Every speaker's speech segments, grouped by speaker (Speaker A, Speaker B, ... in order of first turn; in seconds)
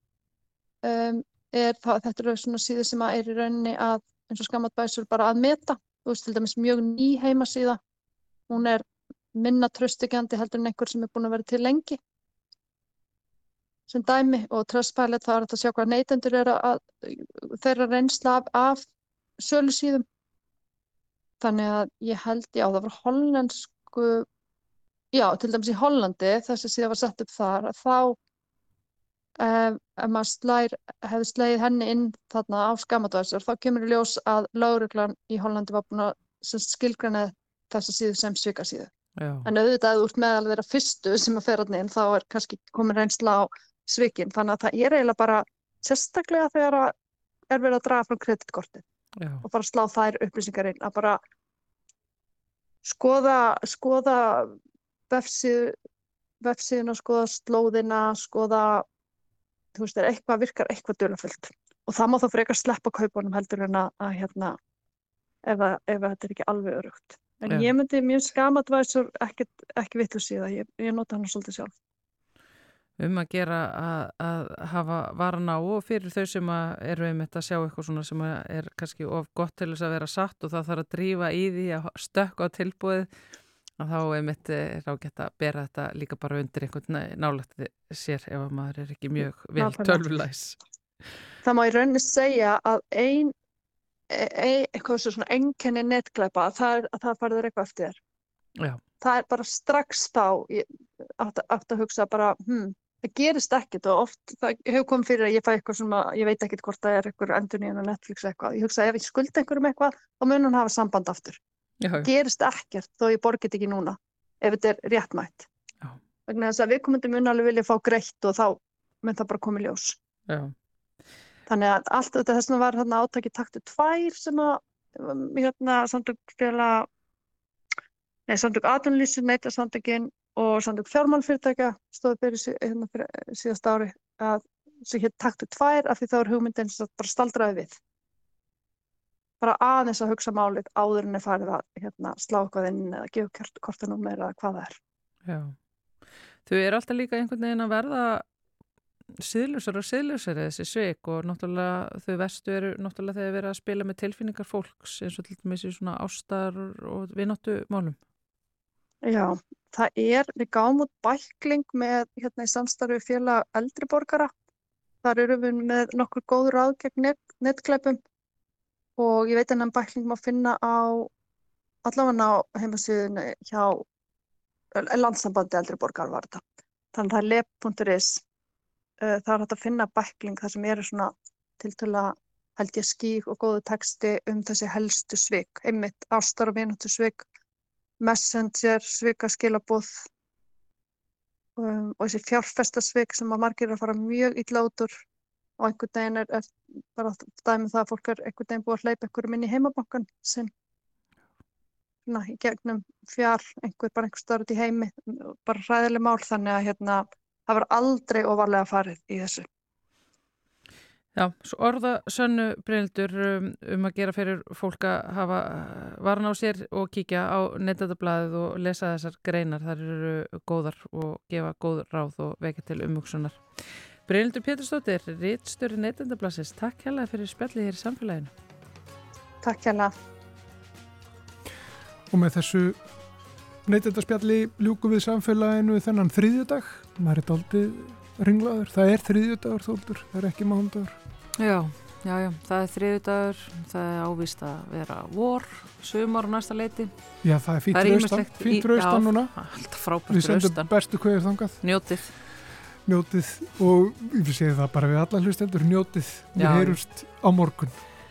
Speaker A: 0.8-7.8, 8.5-12.0, 13.9-18.8, 19.4-20.0, 21.4-24.3, 25.1-28.2, 29.4-38.9, 39.4-46.9, 47.5-48.8, 49.4-51.2, 52.8-54.6, 55.1-55.7, 56.4-58.9, 59.7-64.6, 65.4-71.7, 89.6-90.0, 91.4-93.3, 94.1-98.0, 99.0-100.7, 101.2-111.4, 112.0-115.5, 116.3-120.0, 121.5-126.9, 128.3-137.8, 139.4-144.8, 159.0-164.3, 165.0-168.0, 169.0-171.1, 171.8-173.8, 174.8-178.2, 179.0-187.2, 188.0-190.1, 191.6-195.0, 195.6-200.5, 202.1-209.5, 229.4-229.9
Speaker B: 39.2-39.5, 67.5-67.7, 73.0-83.1, 83.8-90.6, 111.8-112.1, 120.3-120.5, 145.2-145.5, 146.4-148.2, 149.2-158.0, 211.1-228.3, 241.4-246.9, 247.7-250.7, 251.6-252.1, 256.4-256.8
Speaker C: 232.1-232.8, 233.7-241.0, 247.2-249.3, 250.1-251.6, 252.8-257.7